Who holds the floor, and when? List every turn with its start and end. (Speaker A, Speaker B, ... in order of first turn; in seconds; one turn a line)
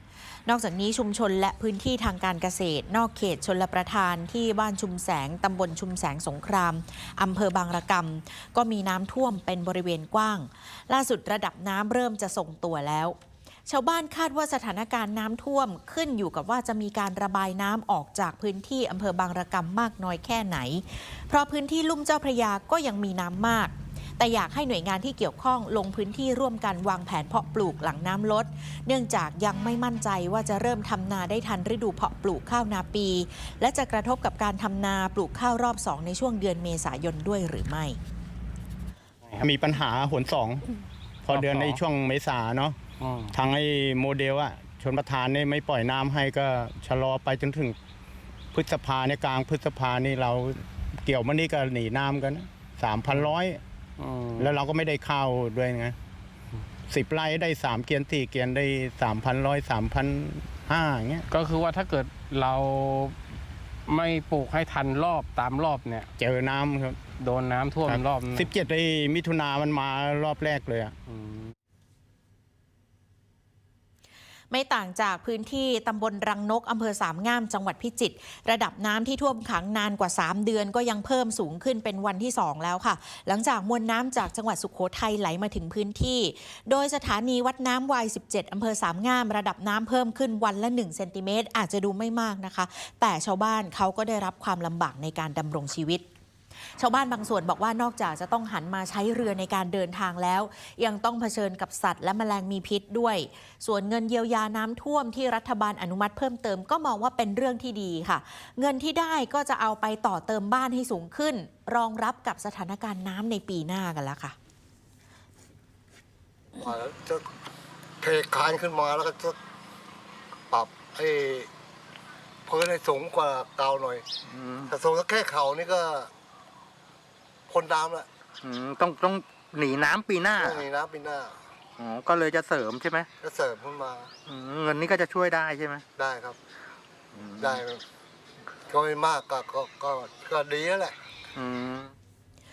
Speaker A: 0.5-13.2
Speaker A: 13.7-38.0
Speaker B: 39.4-40.7
Speaker B: 41.2-42.8
Speaker C: 41.3-41.8
Speaker C: 43.0-43.3
Speaker B: 43.3-47.8
Speaker B: 48.5-53.6
Speaker C: 54.0-54.5
Speaker B: 54.4-56.0
Speaker B: 56.9-61.3
Speaker C: 61.3-63.2
Speaker C: 63.9-66.1
Speaker B: 66.2-67.0
Speaker C: 67.2-68.5
Speaker B: 67.8-71.0
Speaker C: 71.1-71.5
Speaker A: 74.5-96.0
Speaker A: 96.8-114.3
Speaker D: 116.6-117.2
Speaker D: 118.0-119.3
Speaker D: 120.5-121.5
Speaker D: 122.5-124.1
Speaker E: 124.3-124.7
Speaker D: 124.7-126.1
Speaker D: 127.5-128.1
Speaker E: 128.4-130.6
Speaker D: 130.4-131.4
Speaker E: 131.8-133.1
Speaker D: 133.2-134.1
Speaker E: 134.2-135.8
Speaker D: 136.0-136.4
Speaker E: 137.1-137.6
Speaker D: 137.3-137.8
Speaker D: 138.7-141.0
Speaker E: 141.3-141.9